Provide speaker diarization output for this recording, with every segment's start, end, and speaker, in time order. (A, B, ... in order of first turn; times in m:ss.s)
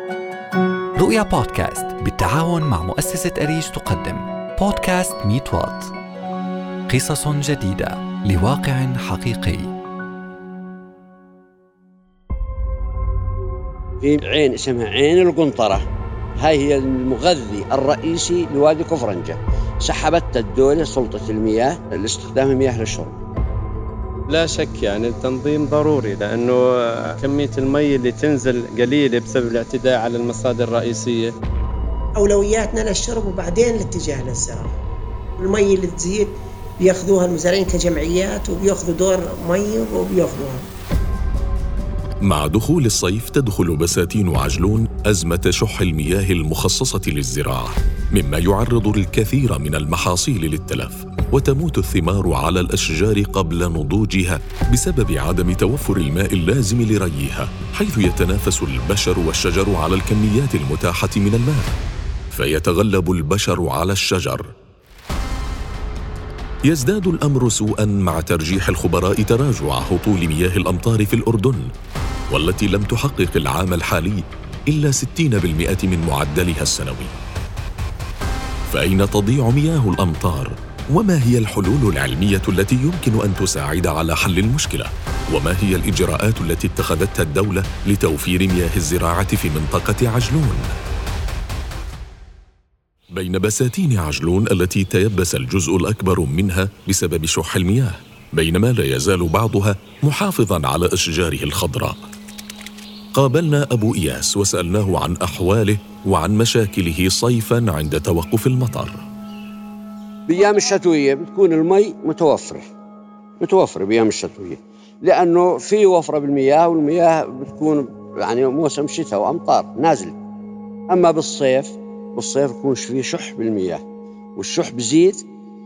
0:01.0-0:05.9 A
0:06.9-0:09.7 A
0:14.0-0:15.8 B
0:16.4-0:23.2 B
0:24.3-0:31.3 C
0:32.2-0:34.8 D
0:35.4-0:40.6 D
0:42.3-1:01.7 E
1:02.3-1:04.5 E
1:06.7-1:11.7 E
1:12.3-1:17.1 E
1:18.7-1:30.7 E
1:33.1-1:42.0 E
1:43.2-1:49.0 E
1:50.3-1:52.6 B
1:53.4-2:00.2 B
2:00.9-2:03.8 B
2:04.4-2:05.2 B